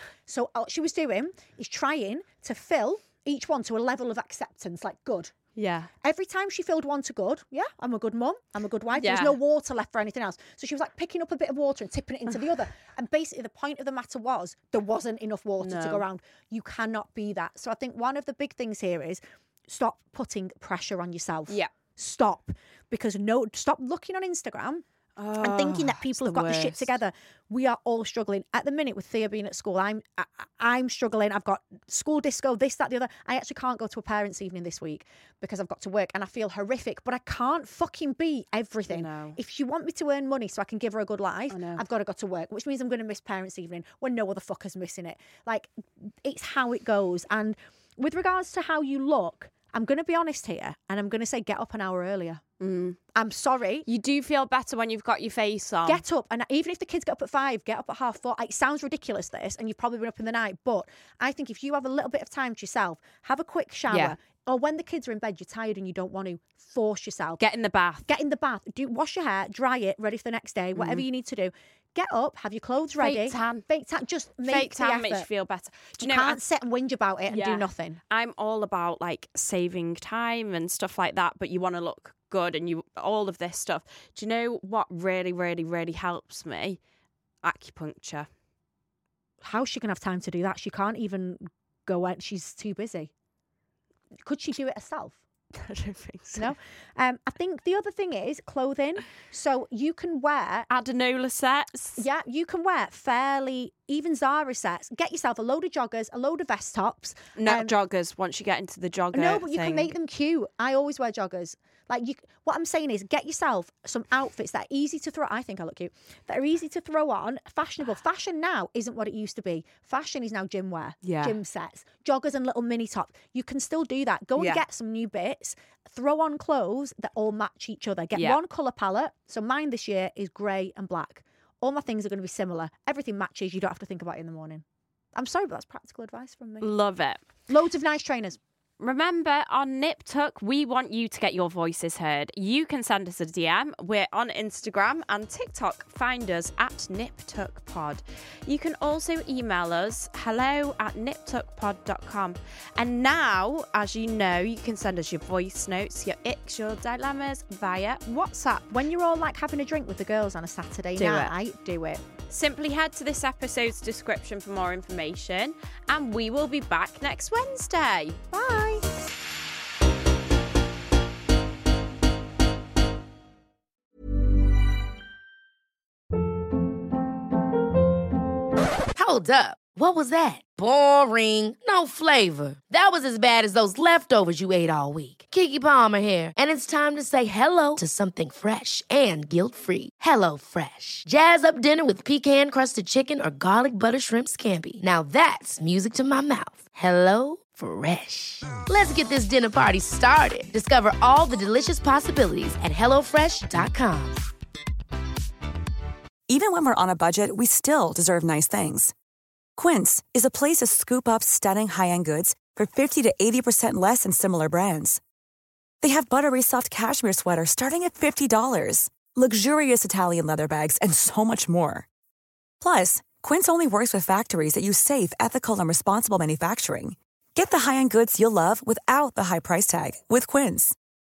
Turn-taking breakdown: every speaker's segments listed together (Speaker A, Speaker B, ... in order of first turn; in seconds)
Speaker A: 0.3-5.3, 6.0-24.8, 25.4-45.7, 46.2-52.4, 53.1-53.9, 55.9-67.4, 68.0-75.3, 76.0-78.0, 89.4-93.1, 94.2-95.2, 96.3-100.7, 102.0-107.7, 109.1-134.6, 135.1-136.8, 137.5-138.4, 158.1-162.0, 168.3-168.9
Speaker B: 5.5-5.9, 8.9-9.4, 15.6-16.1, 25.2-27.0, 38.9-39.4, 41.5-41.8, 52.6-53.0, 53.8-56.0, 63.9-64.1, 67.4-68.1, 70.7-71.0, 73.0-73.6, 74.4-76.4, 77.3-86.8, 87.4-88.3, 95.5-96.5, 100.7-102.0, 107.4-109.9, 121.0-121.3, 124.3-124.6, 136.6-137.2, 138.8-158.7, 160.9-161.4, 162.3-168.2
Speaker C: 178.9-204.2
Speaker D: 206.3-208.9, 209.6-215.0, 215.8-221.9, 222.6-230.8